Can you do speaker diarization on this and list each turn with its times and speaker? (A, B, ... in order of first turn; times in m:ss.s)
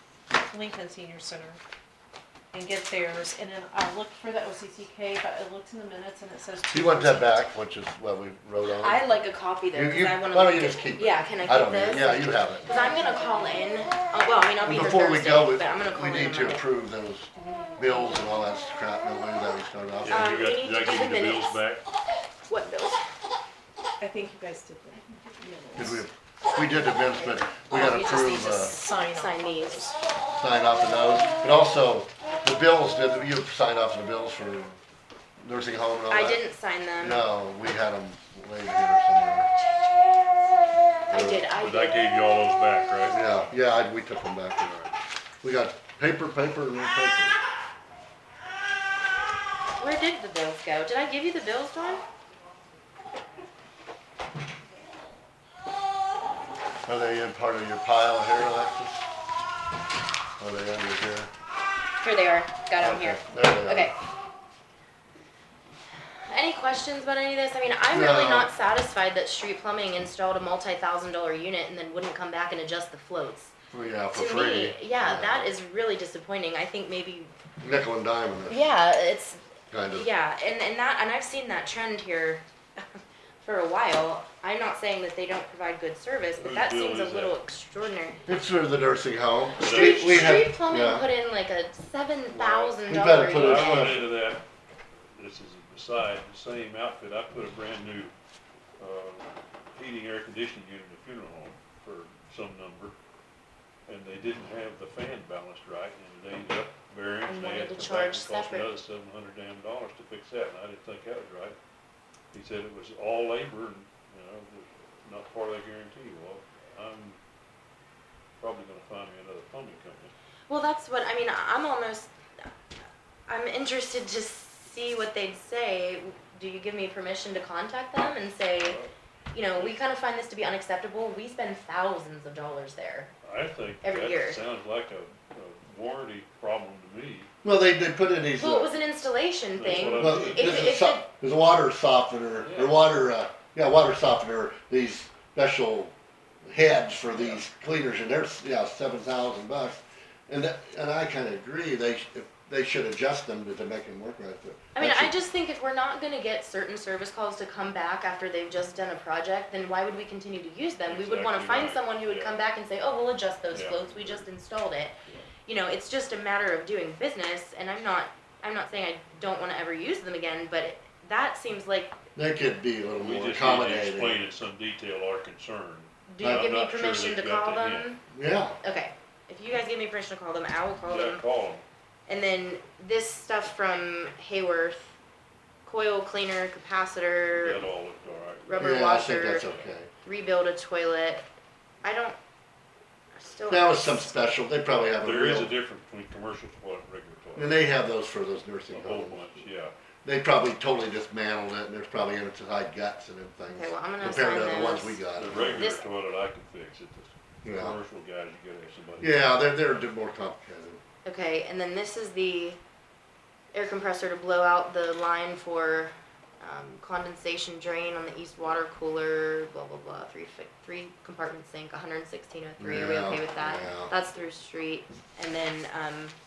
0:00.3-0:01.6 A
0:02.5-0:07.4 A
0:06.7-0:09.0 B
0:08.6-0:16.6 C
0:09.7-0:12.7 B
0:13.0-0:13.4 A
0:14.6-0:20.3 B
0:17.3-0:18.5 A
0:20.0-0:21.8 D
0:20.1-0:21.6 C
0:22.5-0:23.0 C
0:24.0-0:26.0 A
0:25.8-0:28.8 B
0:27.6-0:30.0 A
0:29.1-0:29.9 C
0:30.4-0:34.8 B
0:35.4-0:36.4 B
0:36.1-0:37.2 C
0:37.0-0:39.5 B
0:41.1-0:42.1 C
0:41.1-0:41.4 B
0:41.6-0:43.2 D
0:43.1-0:47.4 B
0:49.8-0:52.0 C
0:56.8-0:59.0 B
1:00.4-1:01.3 B
1:02.0-1:04.0 C
1:02.8-1:03.9 B
1:06.2-1:13.5 C
1:07.9-1:08.5 B
1:13.7-1:15.5 B
1:14.1-1:17.3 C
1:17.6-1:18.7 B
1:18.5-1:28.2 C
1:19.7-1:20.1 B
1:26.4-1:27.4 D
1:28.3-1:31.1 B
1:29.6-1:30.5 D
1:29.6-1:34.0 C
1:32.3-1:34.4 D
1:32.9-1:34.1 B
1:35.1-1:38.1 D
1:38.8-1:42.9 D
1:43.9-1:51.6 D
1:47.2-1:48.7 C
1:52.3-1:57.2 D
1:58.4-2:00.1 D
2:00.5-2:02.1 C
2:03.3-2:08.8 C
2:08.6-2:08.9 D
2:09.3-2:13.1 C
2:13.2-2:17.3 D
2:13.8-2:14.4 C
2:17.4-2:18.7 B
2:18.4-2:21.0 C
2:19.5-2:20.8 D
2:19.9-2:25.9 B
2:22.4-2:22.8 D
2:26.4-2:35.2 B
2:27.1-2:27.4 D
2:34.7-2:52.0 C
2:40.8-2:42.4 D
2:43.5-2:44.3 D
2:52.1-2:54.2 B
2:52.9-2:57.9 D
2:56.1-2:58.0 C
2:58.1-2:58.6 B
2:58.6-3:01.2 C
3:00.8-3:01.6 D
3:02.1-3:05.0 C
3:05.6-3:07.6 C
3:07.3-3:09.7 D
3:08.4-3:09.5 C
3:08.6-3:09.9 B
3:10.0-3:11.2 C
3:11.8-3:12.2 C
3:13.2-3:14.1 C
3:13.5-3:15.5 B
3:14.9-3:17.5 D
3:17.4-3:19.4 B
3:18.7-3:19.7 D
3:20.0-3:25.7 B
3:23.4-3:25.8 C
3:25.2-3:29.8 D
3:27.4-3:27.8 B
3:29.0-3:30.8 B
3:31.0-3:32.6 C
3:33.5-3:46.2 C
3:42.6-3:43.9 B